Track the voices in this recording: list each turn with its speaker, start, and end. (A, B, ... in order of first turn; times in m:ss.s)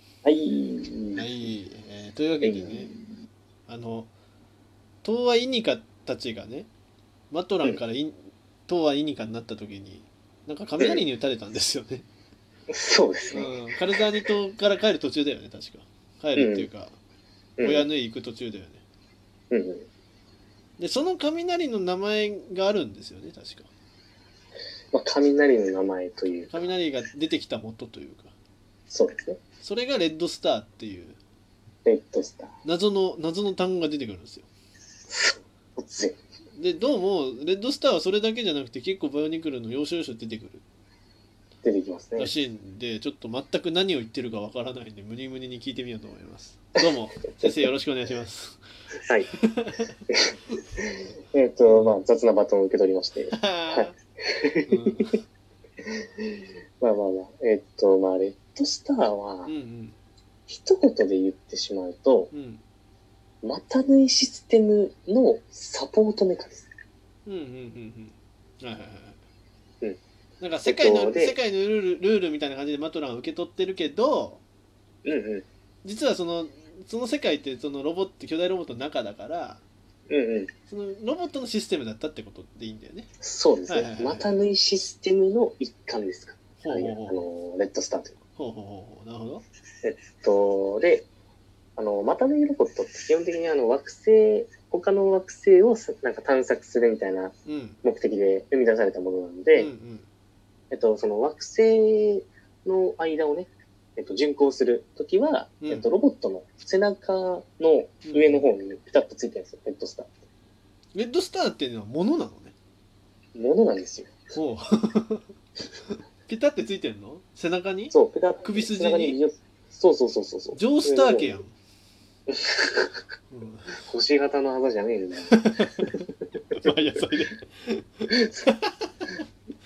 0:00.2-0:01.4 A
0:01.1-0:02.9 B
0:02.4-0:03.0 A
0:03.7-0:04.1 B
0:05.0-0:06.7 B
0:07.3-0:12.0 B
0:10.8-0:11.0 A
0:12.7-0:14.0 A
0:13.3-0:17.0 B
0:16.3-0:16.7 A
0:17.6-0:17.9 A
0:17.6-0:18.8 B
0:19.5-0:19.9 A
0:20.8-0:23.7 B
0:24.9-0:26.7 A
0:26.5-0:28.3 B
0:28.9-0:29.4 A
0:29.6-0:31.2 B
0:31.8-0:32.5 A
0:32.6-0:34.5 B
0:35.1-0:36.2 A
0:36.5-0:40.6 B
0:41.6-0:42.3 A
0:42.2-0:48.6 B
0:49.0-0:49.3 A
0:49.4-0:49.9 B
0:50.1-0:55.0 A
0:51.6-0:52.0 B
0:53.3-0:53.9 B
0:54.7-0:55.2 B
0:55.8-0:59.5 A
0:59.4-1:00.0 B
1:00.5-1:02.3 A
1:02.3-1:02.6 B
1:03.4-1:06.7 A
1:07.2-1:09.2 B
1:10.4-1:14.4 B
1:10.6-1:11.4 A
1:15.0-1:15.4 A
1:15.8-1:19.6 B
1:20.1-1:20.5 A
1:20.7-1:23.1 B
1:23.2-1:28.2 A
1:23.7-1:24.3 B
1:26.6-1:27.2 B
1:28.4-1:29.4 B
1:29.8-1:31.1 A
1:31.8-1:39.7 A
1:37.4-1:37.8 B
1:39.5-1:40.1 B
1:40.7-1:50.1 A
1:45.6-1:45.9 B
1:48.0-1:48.4 B
1:50.9-1:52.5 B
1:53.3-1:54.1 A
1:54.3-1:55.3 B
1:55.9-1:59.2 B
1:57.9-2:01.4 A
2:00.5-2:01.5 B
2:02.3-2:03.0 A
2:03.3-2:03.8 B
2:03.7-2:05.9 A
2:05.3-2:09.2 B